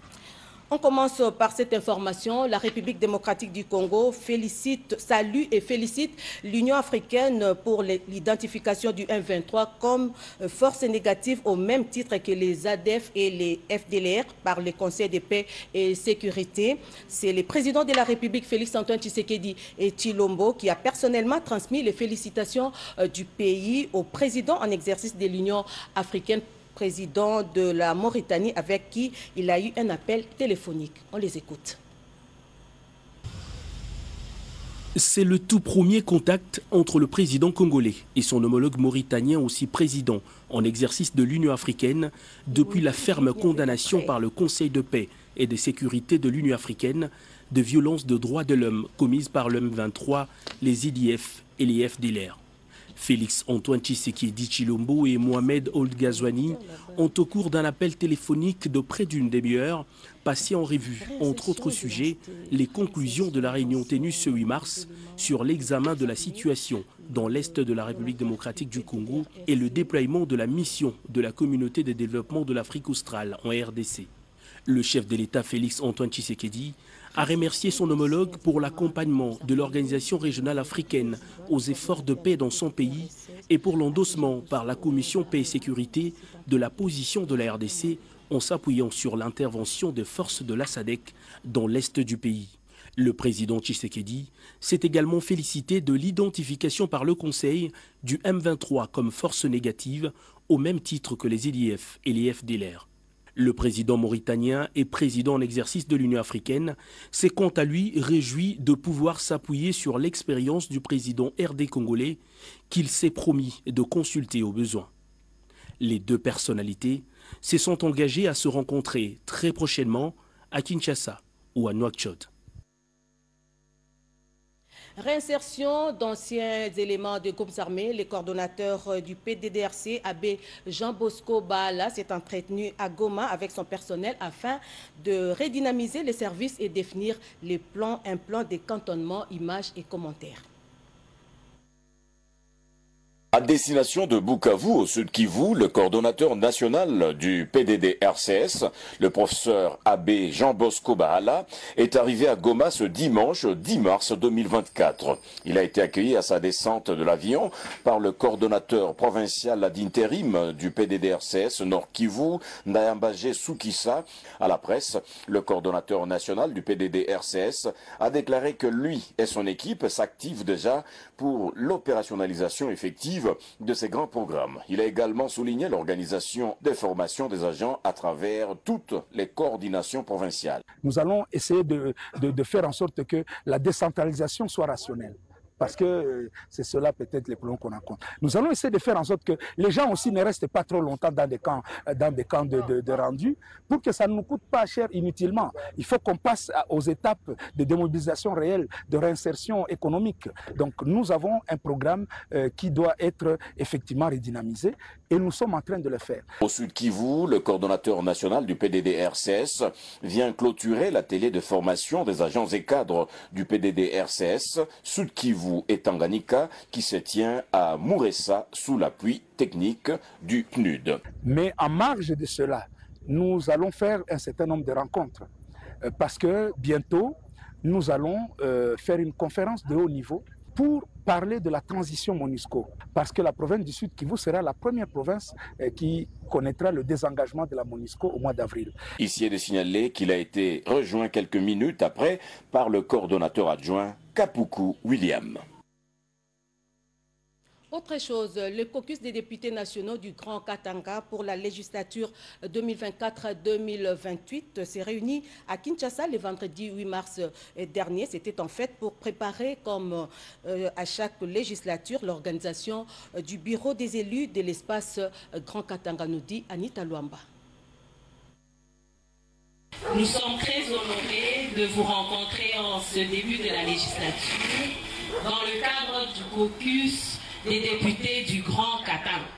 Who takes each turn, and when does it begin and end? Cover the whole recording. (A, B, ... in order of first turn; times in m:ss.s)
0:00.7-0:31.8 A
0:35.0-0:52.4 B
0:53.0-1:14.1 B
1:09.0-1:09.5 A
1:14.7-1:54.9 B
1:55.8-2:02.3 B
2:05.0-2:20.4 A
2:23.3-3:00.6 C
3:00.8-3:26.3 D
3:26.4-3:41.0 C
3:41.2-3:45.3 D
3:45.8-3:58.8 D
3:59.0-4:05.4 C
4:07.7-4:27.2 A
4:29.9-4:39.3 E